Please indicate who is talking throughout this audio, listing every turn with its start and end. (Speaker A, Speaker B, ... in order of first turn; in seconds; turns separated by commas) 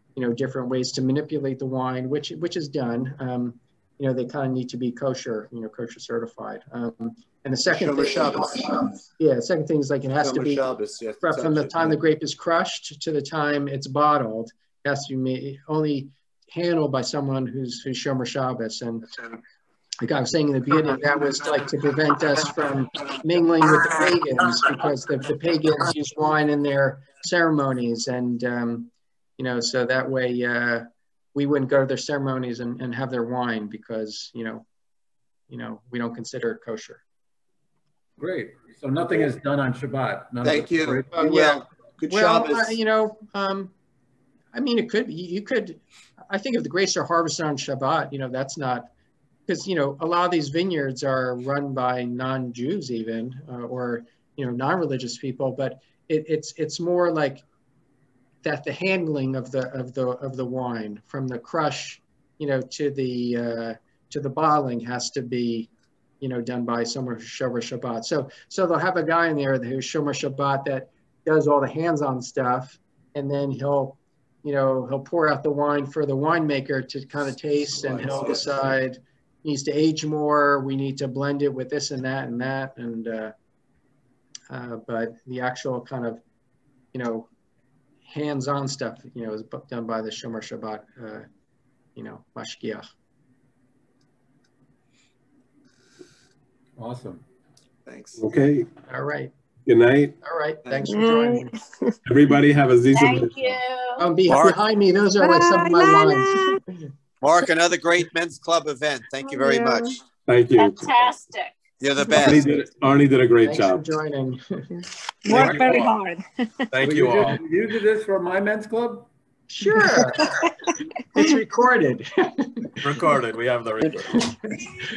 Speaker A: 0.2-10.7, Speaker B: 7.7-8.7, Speaker B: 10.2-12.0, Speaker A: 11.2-19.1, Speaker A: 20.0-34.7, Speaker A: 35.5-37.0, Speaker C: 38.2-41.1, Speaker B: 40.4-42.8, Speaker A: 41.2-43.7, Speaker A: 44.5-48.9, Speaker A: 49.5-57.5, Speaker A: 58.4-65.7, Speaker A: 66.2-83.3, Speaker A: 84.5-86.2, Speaker A: 86.9-87.3, Speaker A: 88.1-91.3, Speaker A: 92.0-92.9, Speaker C: 96.8-97.2, Speaker B: 97.9-98.2, Speaker D: 98.2-98.7, Speaker A: 98.9-99.3, Speaker D: 99.7-100.2, Speaker A: 100.2-101.5, Speaker E: 100.9-101.5, Speaker D: 102.1-103.6, Speaker F: 102.9-104.1, Speaker A: 104.0-106.8, Speaker G: 104.3-104.6, Speaker E: 105.2-106.6, Speaker G: 107.2-110.0, Speaker E: 109.2-109.9, Speaker D: 110.3-110.9, Speaker F: 110.5-111.6, Speaker G: 111.8-112.6, Speaker D: 112.1-113.9, Speaker A: 113.4-114.7, Speaker E: 115.2-116.7, Speaker C: 115.3-115.8, Speaker D: 115.3-115.9, Speaker D: 116.7-117.4, Speaker C: 116.8-119.1, Speaker A: 119.5-120.4, Speaker A: 121.1-122.7, Speaker D: 122.8-124.3